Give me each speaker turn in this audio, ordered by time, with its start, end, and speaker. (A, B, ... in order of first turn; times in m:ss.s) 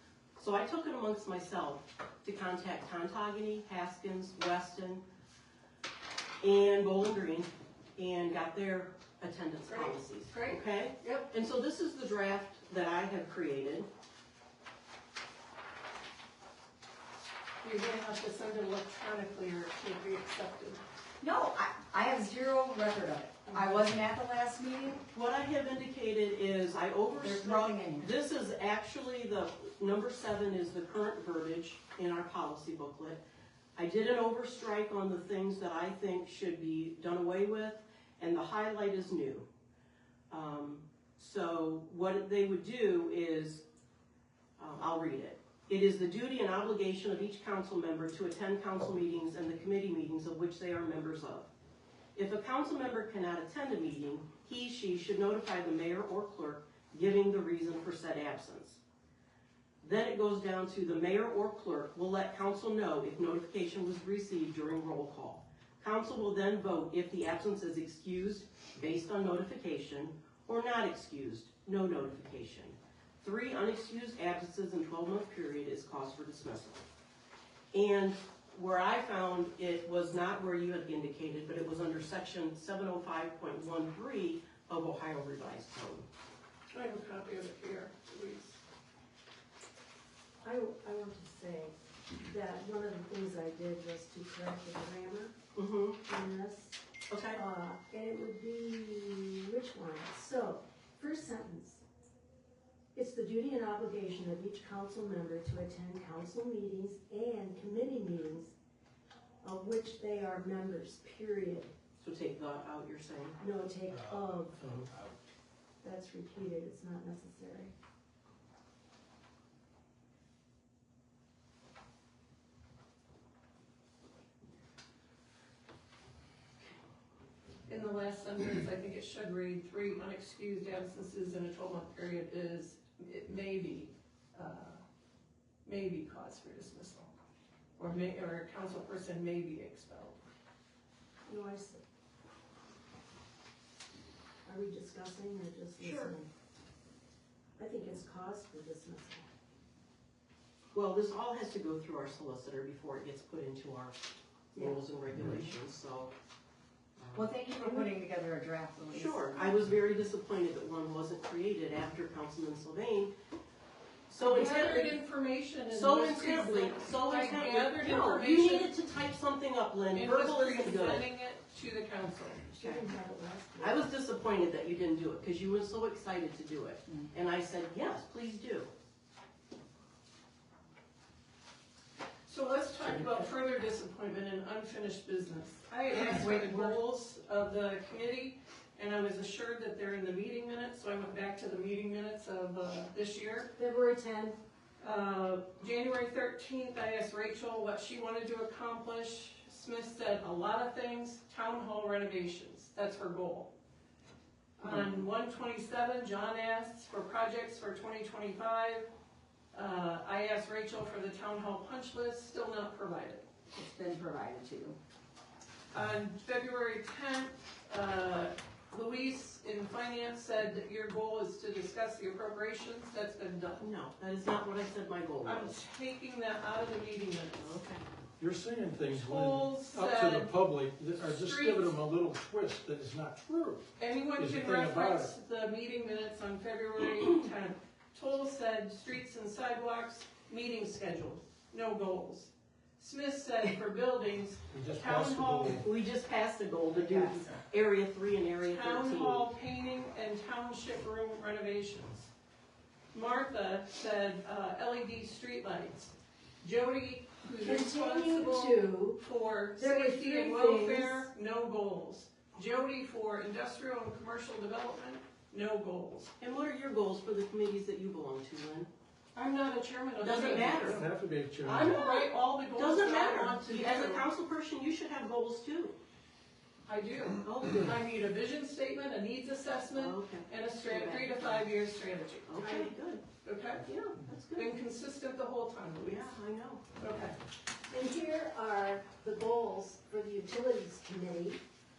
0:00.4-0:05.0 A
0:06.4-0:13.9 A
0:09.7-0:11.3 B
0:17.6-0:20.8 B
0:21.2-0:25.0 C
0:25.1-0:33.2 A
0:27.2-0:28.1 C
0:33.8-0:39.4 A
0:40.3-0:43.6 A
0:44.6-0:51.5 A
0:52.2-0:58.8 A
0:59.8-1:16.8 A
1:17.7-1:26.0 A
1:26.7-1:28.6 B
1:30.4-1:35.3 D
1:35.5-1:36.0 A
1:36.0-1:36.8 D
1:37.1-1:37.4 A
1:37.3-1:41.8 D
1:42.9-1:48.5 D
1:49.4-1:51.7 D
1:52.0-1:53.4 A
1:53.4-1:54.6 D
1:55.8-1:57.7 D
2:07.6-2:14.8 B
2:15.6-2:17.1 B
2:17.8-2:20.2 B
2:21.2-2:21.8 D
2:24.4-2:26.3 D
2:25.8-2:26.2 A
2:27.6-2:29.2 D
2:30.7-2:34.0 A
2:34.5-2:36.1 A
2:37.1-2:39.7 C
2:38.9-2:43.1 A
2:44.1-2:45.0 A
2:44.2-2:48.7 B
2:45.7-2:51.1 A
2:49.9-2:52.5 B
2:52.6-2:52.9 A
2:52.6-2:53.8 D
2:53.6-2:58.7 A
3:02.3-3:13.5 B
3:05.9-3:06.8 C
3:13.6-3:14.4 D
3:14.8-3:23.5 B
3:24.6-3:28.9 B
3:29.5-3:33.2 B
3:33.5-3:34.8 C
3:35.7-3:43.6 B
3:43.6-3:45.6 A
3:45.2-3:47.6 B
3:47.4-3:47.8 A
3:48.2-3:55.1 E
3:48.9-3:50.3 B
3:51.0-3:51.8 B
3:53.8-4:05.6 B
4:04.5-4:05.7 E
4:05.3-4:09.2 A
4:06.7-4:07.2 C
4:08.4-4:12.1 B
4:12.9-4:26.1 B
4:17.4-4:19.0 D
4:19.6-4:21.1 D
4:26.2-4:28.7 A
4:29.1-4:30.9 B
4:30.0-4:30.8 A
4:30.6-4:31.8 E
4:31.4-4:35.8 A
4:31.5-4:34.1 B
4:36.7-4:42.7 B
4:37.2-4:37.8 A
4:39.7-4:41.4 A
4:42.3-4:43.0 A
4:43.2-4:43.7 B
4:43.6-4:44.5 A
4:44.4-4:46.1 B
4:45.8-4:46.6 A
4:46.8-4:47.2 B
4:47.7-4:51.4 D